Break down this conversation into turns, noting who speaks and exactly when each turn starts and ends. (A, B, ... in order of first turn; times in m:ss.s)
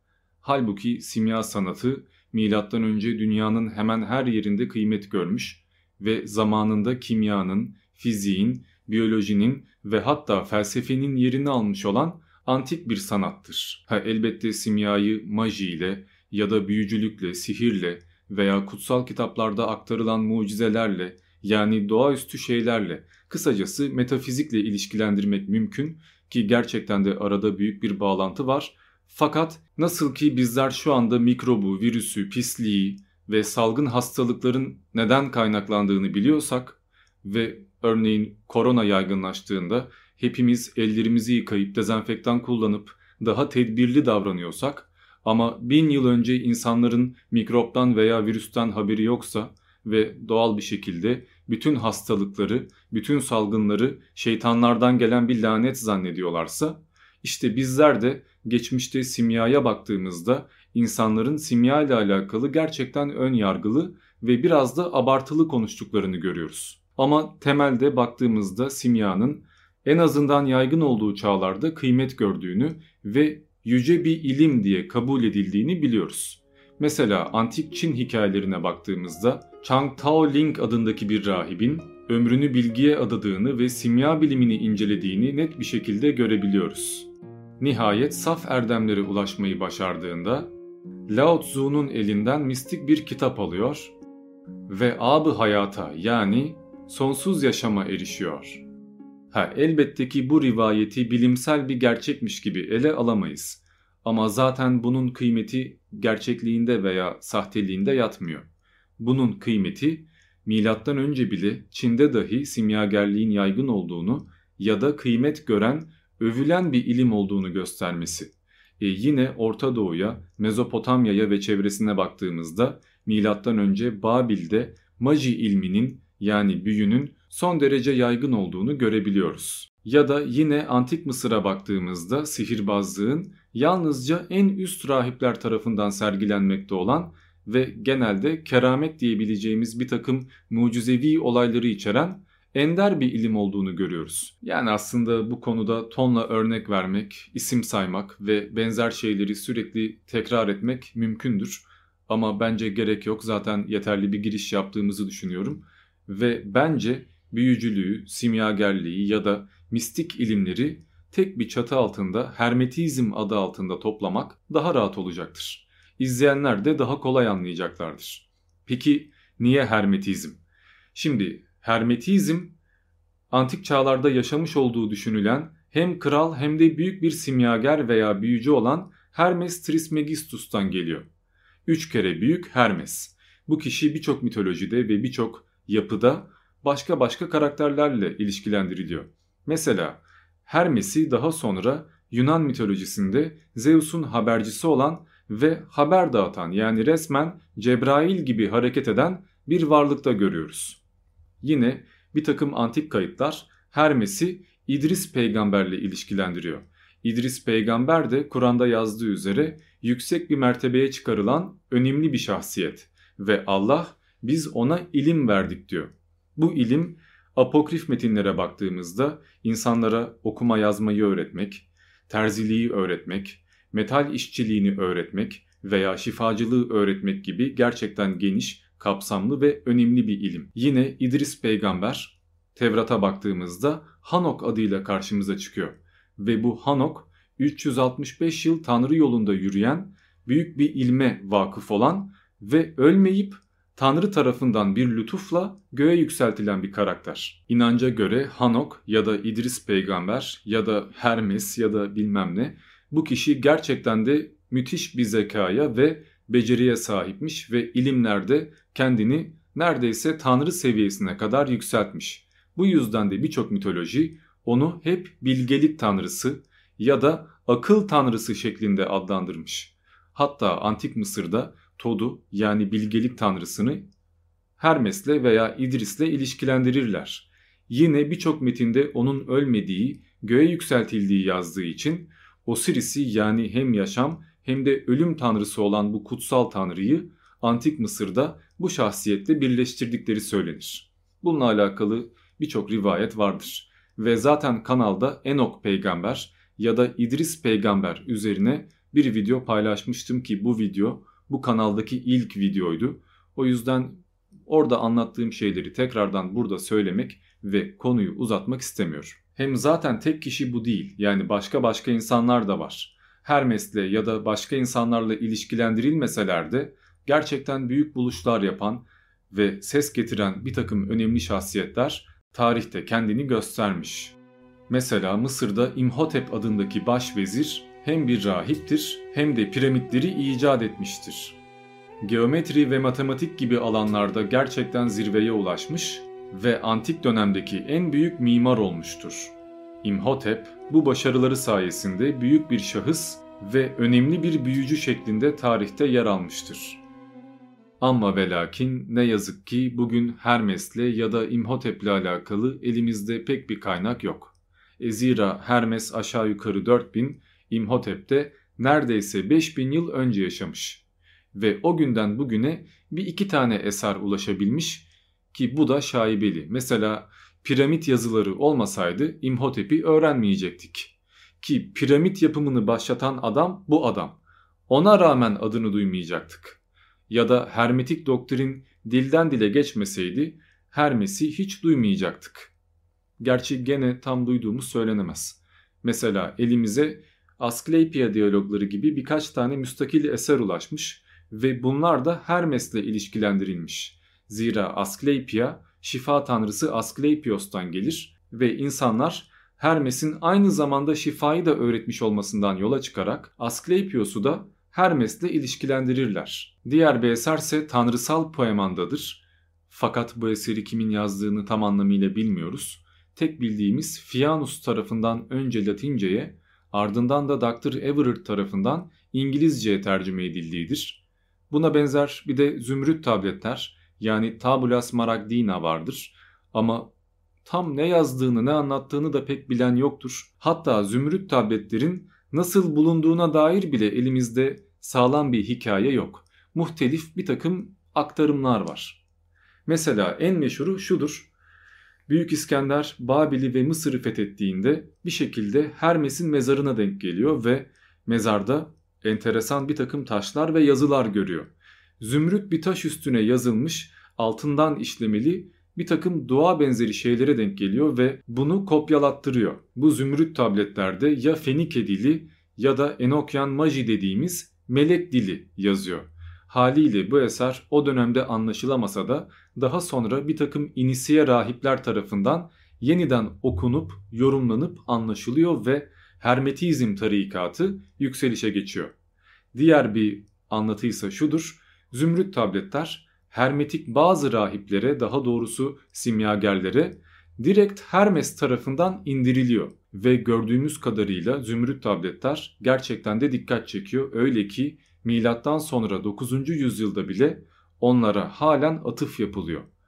0:00.4-1:30.5 A
1:31.1-1:33.9 A
1:34.7-1:38.6 A
1:39.3-1:48.5 A
1:49.0-2:50.4 A
2:51.0-2:52.6 A
2:53.3-3:01.1 A
3:01.7-3:20.8 A
3:21.4-4:33.9 A
4:34.6-5:24.2 A
5:24.7-5:31.4 A
5:32.0-5:46.8 A
5:47.8-6:00.8 A
6:01.3-6:22.5 A
6:23.2-7:06.9 A
7:07.4-7:19.0 A
7:19.7-7:21.3 A
7:22.1-7:58.9 A
7:59.5-8:19.7 A